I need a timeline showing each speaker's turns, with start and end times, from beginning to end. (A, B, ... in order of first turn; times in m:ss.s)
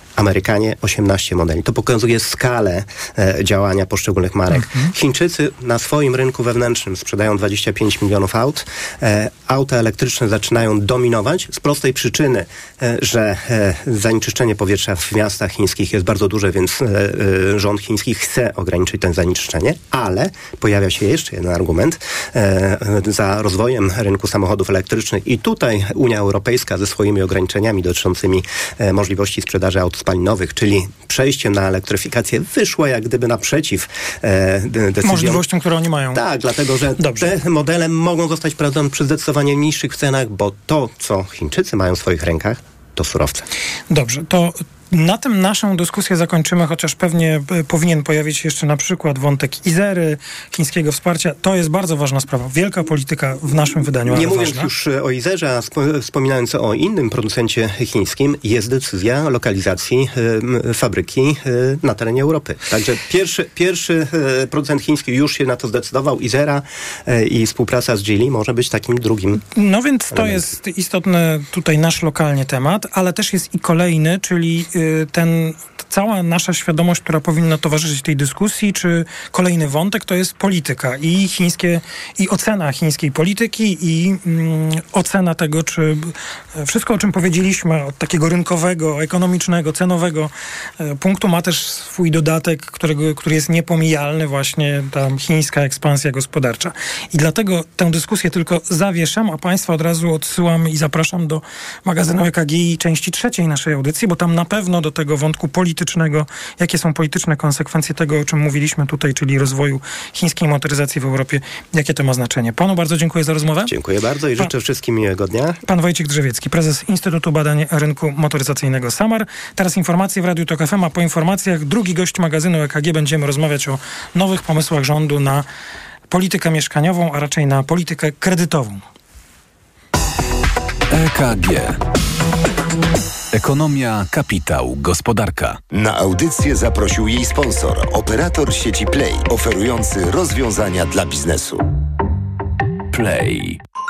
0:00.1-0:35.4 A
0:04.5-0:04.9 B
0:35.0-0:36.2 B
0:36.1-0:43.5 A
0:37.0-0:37.3 B
0:43.9-0:54.7 B
0:54.1-1:09.4 A
1:09.5-1:53.7 B
1:10.1-1:10.5 A
1:53.7-1:55.6 A
1:55.7-2:05.4 B
2:06.1-2:08.8 B
2:10.9-2:11.8 C
2:13.3-2:15.6 C
2:15.7-2:21.6 D
2:22.9-2:23.6 C